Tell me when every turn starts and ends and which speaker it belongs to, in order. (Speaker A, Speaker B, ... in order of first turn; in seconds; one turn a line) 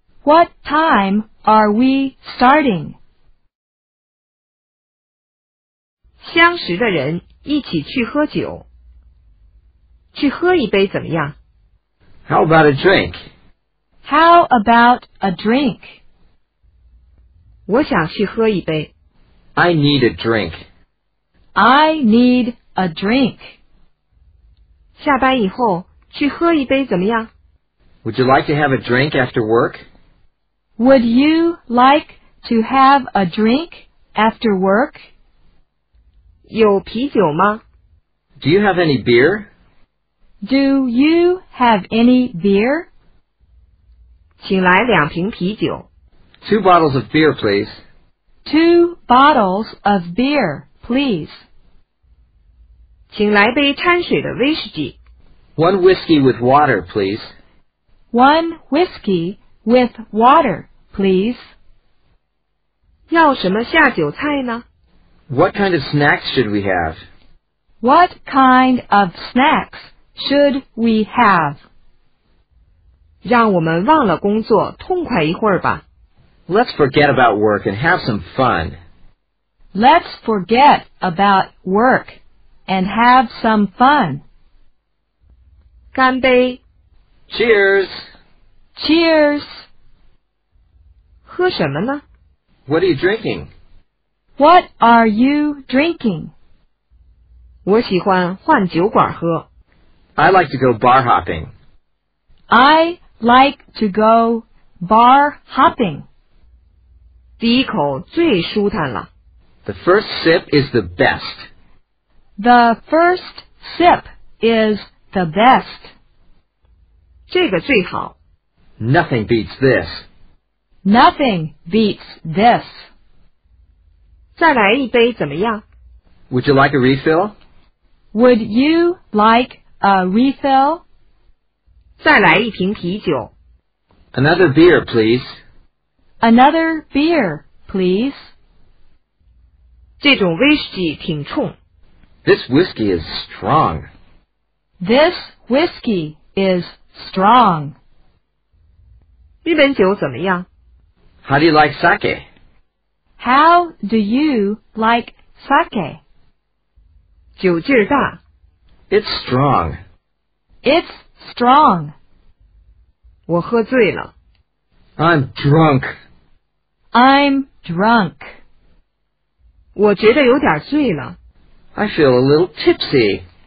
Speaker A: 0.2-3.0
Speaker B: 6.2-8.7
Speaker B: 10.1-11.3
Speaker C: 12.3-13.2
Speaker A: 14.1-16.0
Speaker B: 17.7-18.9
Speaker C: 19.6-20.6
Speaker A: 21.6-23.5
Speaker B: 25.0-27.3
Speaker C: 28.0-29.8
Speaker A: 30.8-35.0
Speaker B: 36.5-37.6
Speaker C: 38.4-39.5
Speaker A: 40.4-42.9
Speaker B: 44.4-45.9
Speaker C: 46.4-47.8
Speaker A: 48.5-51.4
Speaker B: 53.1-55.0
Speaker C: 55.6-57.3
Speaker A: 58.1-61.4
Speaker B: 63.1-64.6
Speaker C: 65.3-67.0
Speaker A: 67.8-71.6
Speaker B: 73.2-75.8
Speaker C: 76.5-78.8
Speaker A: 79.7-84.2
Speaker B: 85.9-86.6
Speaker C: 87.3-88.1
Speaker A: 88.8-89.6
Speaker B: 91.3-92.0
Speaker C: 92.7-93.5
Speaker A: 94.4-96.3
Speaker B: 97.7-99.5
Speaker C: 100.2-101.5
Speaker A: 102.5-106.0
Speaker B: 107.4-109.1
Speaker C: 109.7-111.5
Speaker A: 112.4-115.9
Speaker B: 117.3-118.2
Speaker C: 118.8-120.1
Speaker A: 120.8-122.8
Speaker B: 124.4-125.6
Speaker C: 126.3-127.3
Speaker A: 128.1-130.8
Speaker B: 132.0-133.3
Speaker C: 134.1-135.3
Speaker A: 136.2-138.3
Speaker B: 140.0-141.6
Speaker C: 142.2-143.9
Speaker A: 144.8-147.8
Speaker B: 149.4-150.5
Speaker C: 151.2-152.2
Speaker A: 153.2-156.0
Speaker B: 157.4-158.2
Speaker C: 158.9-159.8
Speaker A: 160.6-161.9
Speaker B: 163.3-164.1
Speaker C: 165.0-165.9
Speaker A: 166.9-168.3
Speaker B: 169.8-171.2
Speaker C: 171.8-173.2